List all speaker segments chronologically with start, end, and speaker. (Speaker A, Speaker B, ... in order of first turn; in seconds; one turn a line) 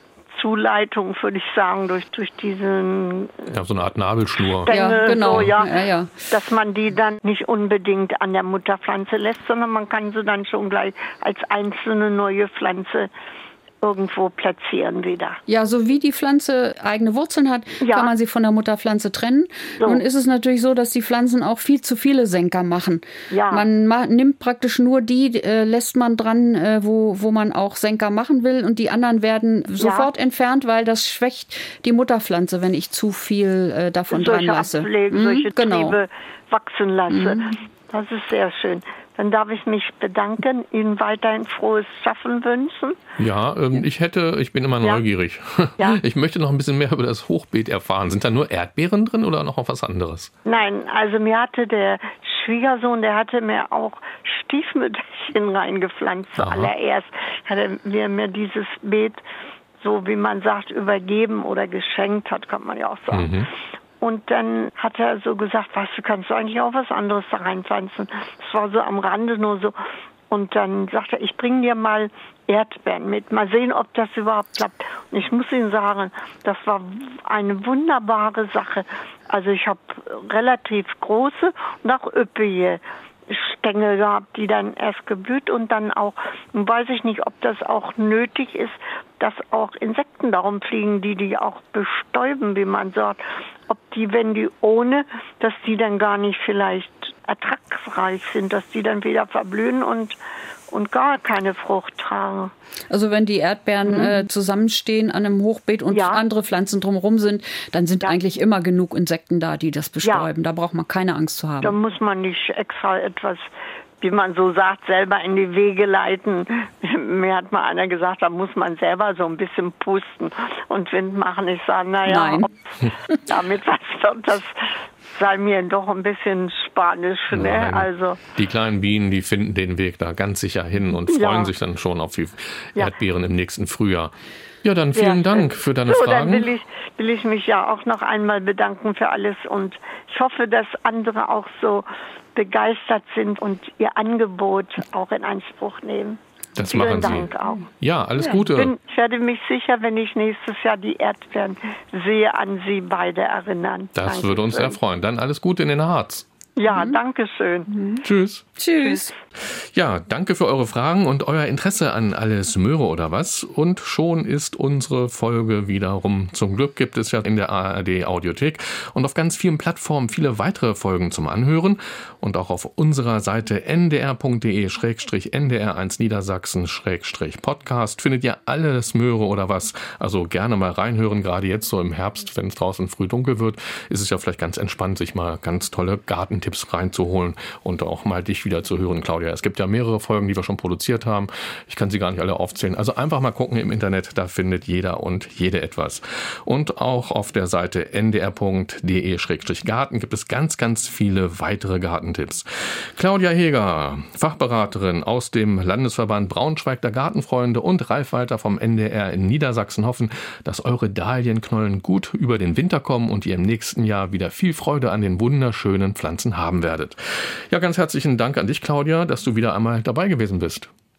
Speaker A: 0.3-3.5
Speaker B: 3.5-5.5
Speaker A: 4.5-5.8
Speaker C: 4.7-6.1
Speaker A: 6.3-13.1
Speaker A: 13.8-15.4
Speaker C: 15.5-36.0
Speaker A: 17.8-18.1
Speaker A: 23.3-23.6
Speaker A: 29.8-30.1
Speaker A: 34.1-43.0
Speaker C: 37.1-37.5
Speaker B: 43.2-50.3
Speaker A: 50.5-59.2
Speaker B: 56.4-56.7
Speaker A: 59.8-63.4
Speaker B: 63.1-63.5
Speaker A: 64.0-69.8
Speaker A: 70.3-100.2
Speaker A: 100.7-102.5
Speaker C: 102.9-111.7
Speaker A: 103.8-104.2
Speaker A: 105.9-106.2
Speaker A: 110.0-110.3
Speaker A: 111.6-113.4
Speaker A: 114.0-122.7
Speaker C: 122.0-122.5
Speaker A: 123.3-124.5
Speaker A: 125.1-128.2
Speaker B: 127.3-136.5
Speaker A: 131.1-131.5
Speaker A: 134.9-154.8
Speaker B: 146.6-148.7
Speaker B: 153.9-156.2
Speaker A: 156.6-158.0
Speaker C: 156.7-157.0
Speaker B: 158.0-158.5
Speaker C: 158.6-159.1
Speaker B: 159.5-220.7